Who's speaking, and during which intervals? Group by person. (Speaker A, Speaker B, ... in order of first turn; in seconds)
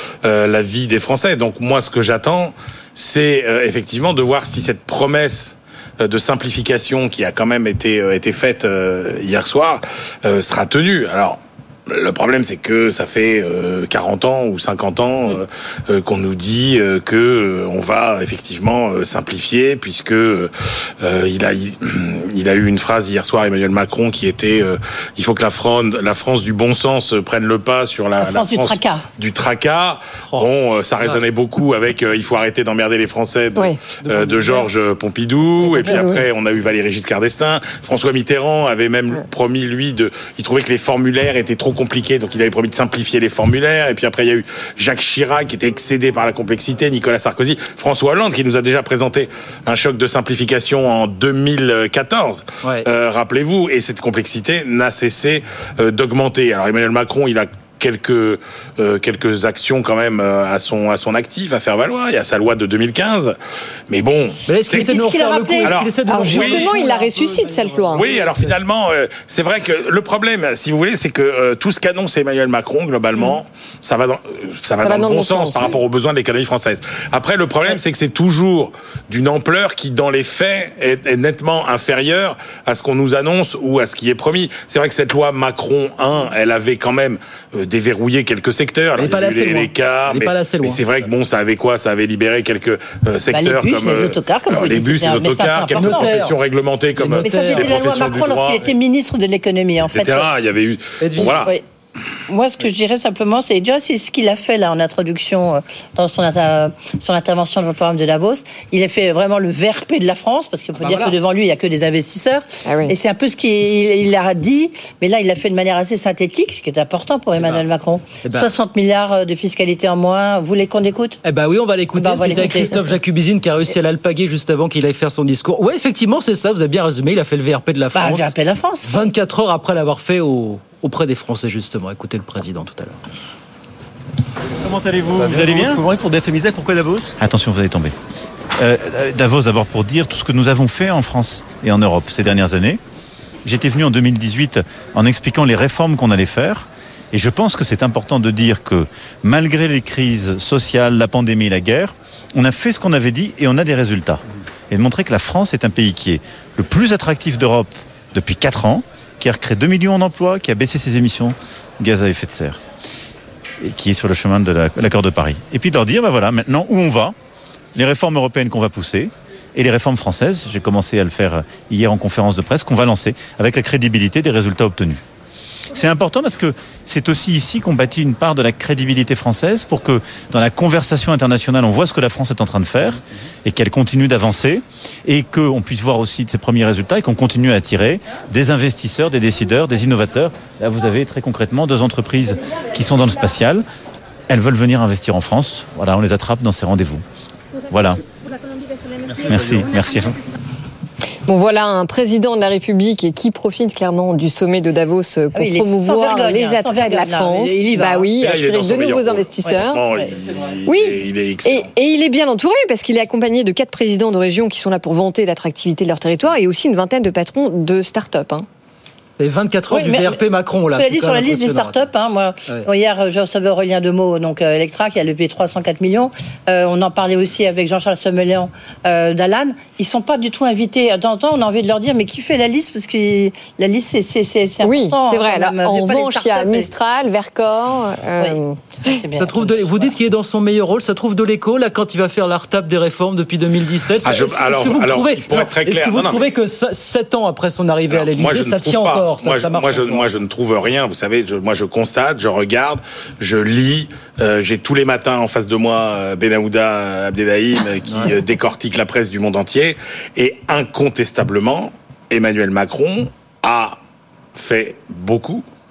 Speaker A: 0.2-63.4, 63.9-64.8, 65.6-66.7, 67.9-98.7, 99.8-101.5, 208.2-211.7, 244.0-246.2, 247.9-263.8, 264.4-265.4
Speaker B: 28.2-29.1, 64.7-66.5, 93.3-96.1, 97.2-100.3, 101.2-101.6, 102.3-121.2, 121.9-122.9, 127.9-129.1, 205.3-208.8, 219.7-220.2, 220.7-236.7, 238.2-239.9
Speaker C: 34.0-34.7, 64.5-68.6, 89.0-90.8, 95.7-96.4, 97.0-97.9, 101.0-101.5, 110.8-111.2, 117.4-117.7, 118.2-118.5, 121.2-128.3, 128.8-133.0, 219.2-221.9, 239.2-250.1, 257.9-258.1
Speaker D: 35.6-36.2, 66.1-68.0, 74.8-75.8, 112.7-112.9, 201.3-209.8, 210.7-218.4, 234.6-239.0
Speaker E: 134.6-137.2
Speaker F: 135.2-135.8, 137.2-137.9, 138.6-142.8, 143.4-162.6, 163.6-167.1, 167.8-175.0, 175.7-193.6, 194.3-197.0, 197.7-198.0, 199.1-200.2